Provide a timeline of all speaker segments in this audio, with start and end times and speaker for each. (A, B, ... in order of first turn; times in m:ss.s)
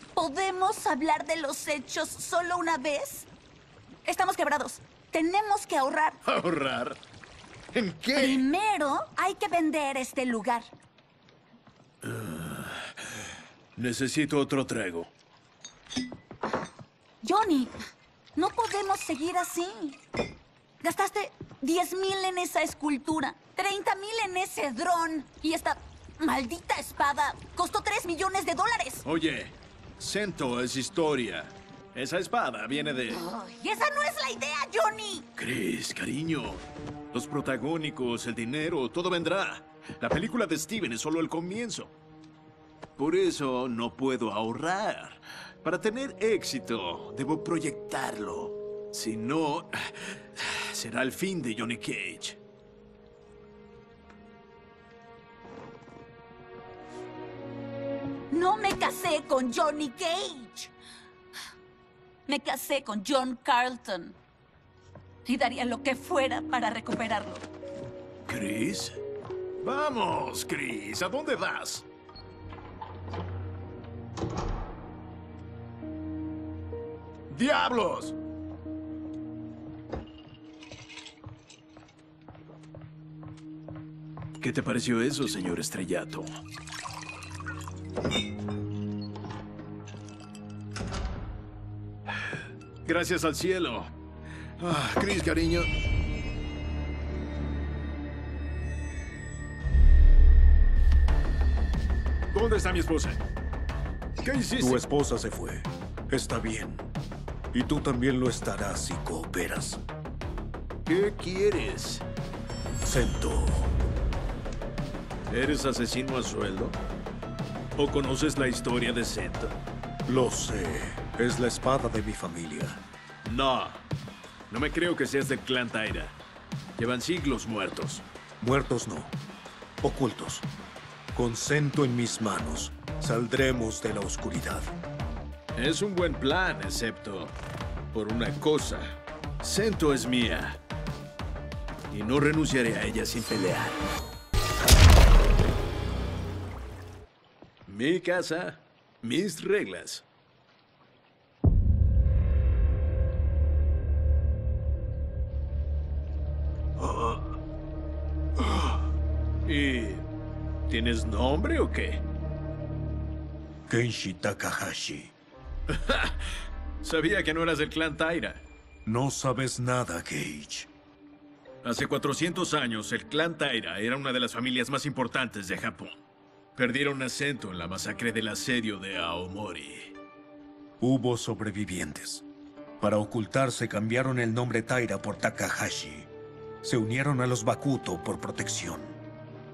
0:00.2-0:03.3 A
0:04.0-0:06.2 A
0:06.2-0:07.0 B
0:07.7-0:08.5 B
0:08.1-0:10.7 A
0:12.0-0:12.9 B
0:13.8-0:15.1 B
0:17.2-0:17.7 A
0:18.4-0:20.0 A
0:20.8-0:29.0 A
0:29.0-0:33.2 B
0:33.1-0:35.3 A
0:35.4-0:41.9 B
0:43.0-0:52.4 B
0:58.3-1:00.7 A
1:02.3-1:04.2 A
1:05.2-1:07.4 A
1:08.3-1:09.0 B
1:09.6-1:11.8 B
1:17.3-1:18.2 B
1:24.4-1:26.3 B
1:32.8-1:33.9 B
1:34.6-1:35.7 B
1:42.3-1:43.2 B
1:44.2-1:44.8 B
1:44.6-1:46.9 C
1:47.5-1:49.8 C
1:50.9-1:52.1 B
1:52.8-1:53.7 C
1:55.3-1:56.8 B
1:57.8-1:59.6 B
2:00.1-2:02.8 C
2:03.2-2:03.8 B
2:04.5-2:06.2 B
2:06.8-2:08.0 B
2:08.4-2:09.2 C
2:09.8-2:10.5 C
2:11.1-2:14.7 C
2:15.6-2:17.4 B
2:17.9-2:20.6 B
2:21.9-2:23.8 B
2:27.7-2:30.0 B
2:36.8-2:37.2 B
2:38.4-2:38.8 B
2:39.5-2:40.1 B
2:40.7-2:42.0 B
2:43.7-2:45.1 C
2:45.7-2:46.3 B
2:46.8-2:48.4 B
2:48.9-2:50.7 C
2:51.6-2:56.0 B
2:56.6-2:59.9 B
3:00.8-3:02.2 C
3:02.8-3:06.1 C
3:06.6-3:09.0 C